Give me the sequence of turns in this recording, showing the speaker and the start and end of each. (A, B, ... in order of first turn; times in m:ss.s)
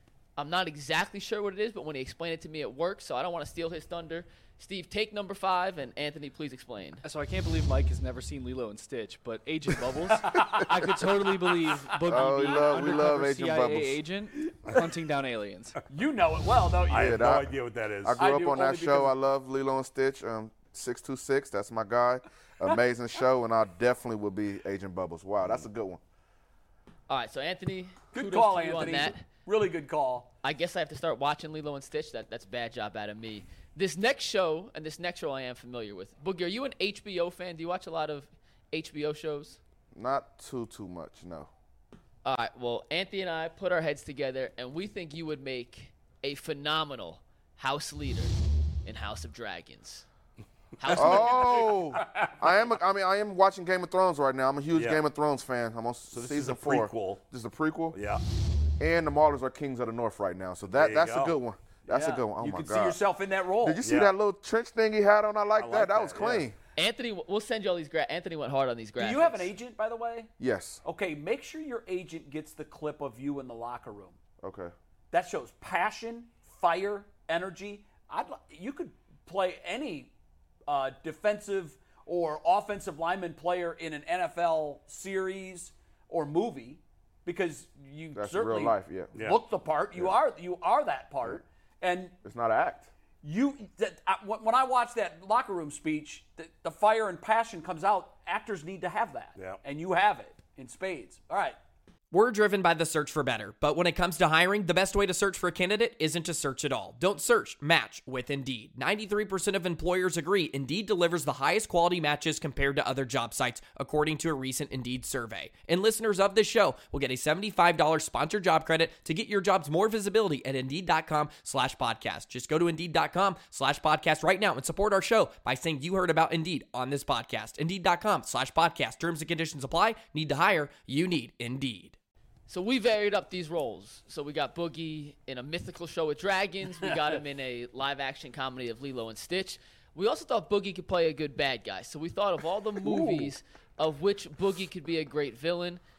0:00.4-0:07.0 A
0:07.0-0:15.8 B
0:10.2-0:10.7 C
0:12.0-0:14.0 D
0:15.9-0:17.1 C
0:16.9-0:18.2 E
0:16.9-0:26.0 D
0:18.2-0:19.1 C
0:27.1-0:29.2 A
0:28.1-0:30.3 C
0:30.4-0:39.6 A
0:39.9-0:41.5 D
0:42.2-0:50.1 A
0:50.8-0:51.8 A
0:50.9-0:58.0 D
0:54.7-0:55.0 E
0:56.1-0:57.2 E
0:57.9-0:58.2 E
0:58.8-1:03.0 D
1:00.7-1:01.4 E
1:01.9-1:03.8 C
1:03.6-1:06.6 D
1:03.8-1:04.1 E
1:05.6-1:06.5 E
1:06.8-1:09.5 A
1:09.0-1:10.3 C
1:10.4-1:10.8 D
1:10.8-1:14.2 C
1:14.4-1:14.7 D
1:15.1-1:20.1 C
1:20.7-1:32.2 C
1:28.1-1:29.2 D
1:29.1-1:29.4 E
1:32.2-1:32.9 D
1:33.2-1:41.6 C
1:42.1-2:12.0 F
2:12.5-2:25.8 A
2:22.8-2:23.3 D